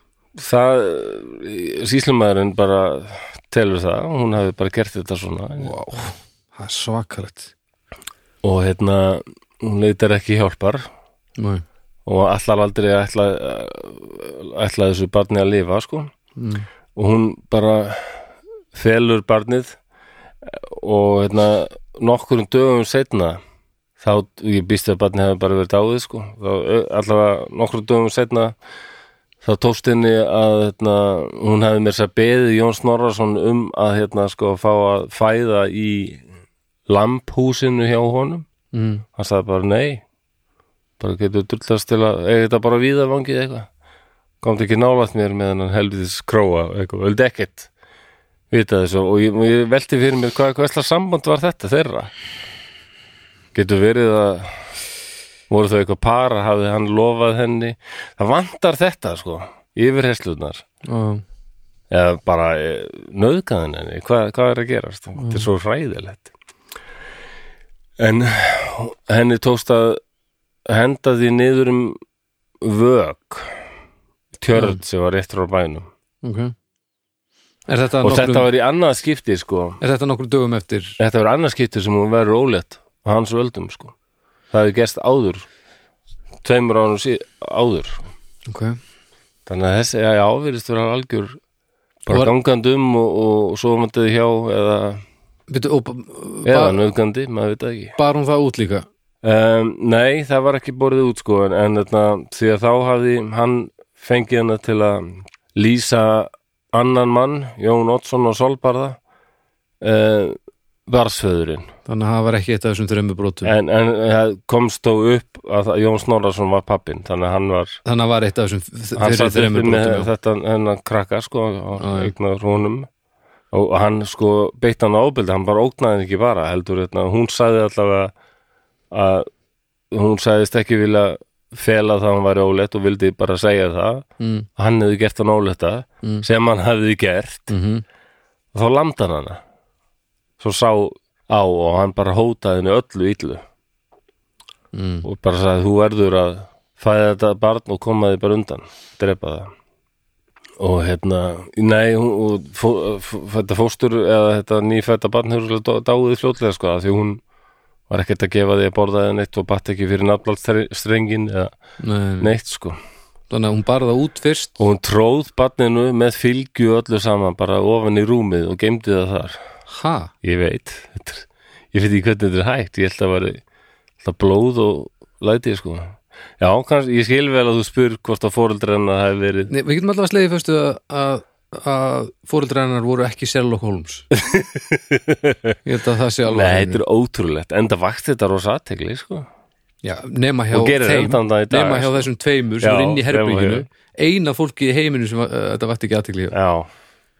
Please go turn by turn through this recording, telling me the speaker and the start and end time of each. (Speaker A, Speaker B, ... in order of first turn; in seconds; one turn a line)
Speaker A: 0.3-5.8
Speaker B: 5.6-7.5
Speaker A: 8.4-10.8
Speaker B: 11.4-11.6
Speaker A: 12.1-16.1
Speaker B: 16.4-16.6
Speaker A: 16.9-19.8
Speaker A: 20.4-23.4
Speaker A: 24.0-28.6
Speaker A: 29.4-36.2
Speaker A: 36.9-38.5
Speaker B: 38.7-39.0
Speaker A: 39.1-40.0
Speaker A: 41.0-43.7
Speaker A: 44.4-47.7
Speaker A: 48.5-52.1
Speaker A: 53.5-54.8
Speaker A: 55.5-60.6
Speaker B: 60.8-61.2
Speaker A: 61.9-66.3
Speaker B: 65.2-65.5
Speaker A: 68.0-70.0
Speaker A: 70.7-72.0
Speaker A: 72.6-73.6
Speaker A: 74.4-75.9
Speaker B: 76.2-76.5
Speaker B: 77.7-78.5
Speaker A: 78.0-79.8
Speaker B: 79.8-81.0
Speaker A: 81.0-83.9
Speaker A: 84.5-85.5
Speaker A: 86.4-88.0
Speaker B: 88.5-88.8
Speaker A: 89.5-91.4
Speaker A: 92.0-95.0
Speaker B: 95.5-96.8
Speaker A: 96.4-98.0
Speaker B: 98.0-98.8
Speaker A: 99.2-109.0
Speaker A: 109.8-111.7
Speaker B: 111.9-113.5
Speaker A: 113.4-117.8
Speaker B: 117.8-120.1
Speaker A: 119.0-122.9
Speaker B: 121.8-122.1
Speaker A: 123.5-128.1
Speaker A: 128.9-129.3
Speaker A: 129.9-134.1
Speaker B: 134.2-134.5
Speaker A: 134.6-137.5
Speaker B: 137.5-137.8
Speaker A: 138.5-139.4
Speaker A: 140.4-143.4
Speaker B: 144.7-145.1
Speaker A: 145.0-149.5
Speaker A: 150.6-157.2
Speaker A: 157.9-161.5
Speaker B: 161.8-162.3
Speaker A: 162.2-162.8
Speaker B: 163.3-164.6
Speaker A: 164.6-169.4
Speaker B: 169.7-170.1
Speaker A: 170.2-173.4
Speaker A: 174.0-179.5
Speaker B: 179.5-184.1
Speaker A: 184.1-185.6
Speaker B: 185.6-186.8
Speaker A: 186.2-189.3
Speaker B: 189.8-196.3
Speaker A: 190.5-192.1
Speaker A: 192.6-193.7
Speaker A: 196.3-196.7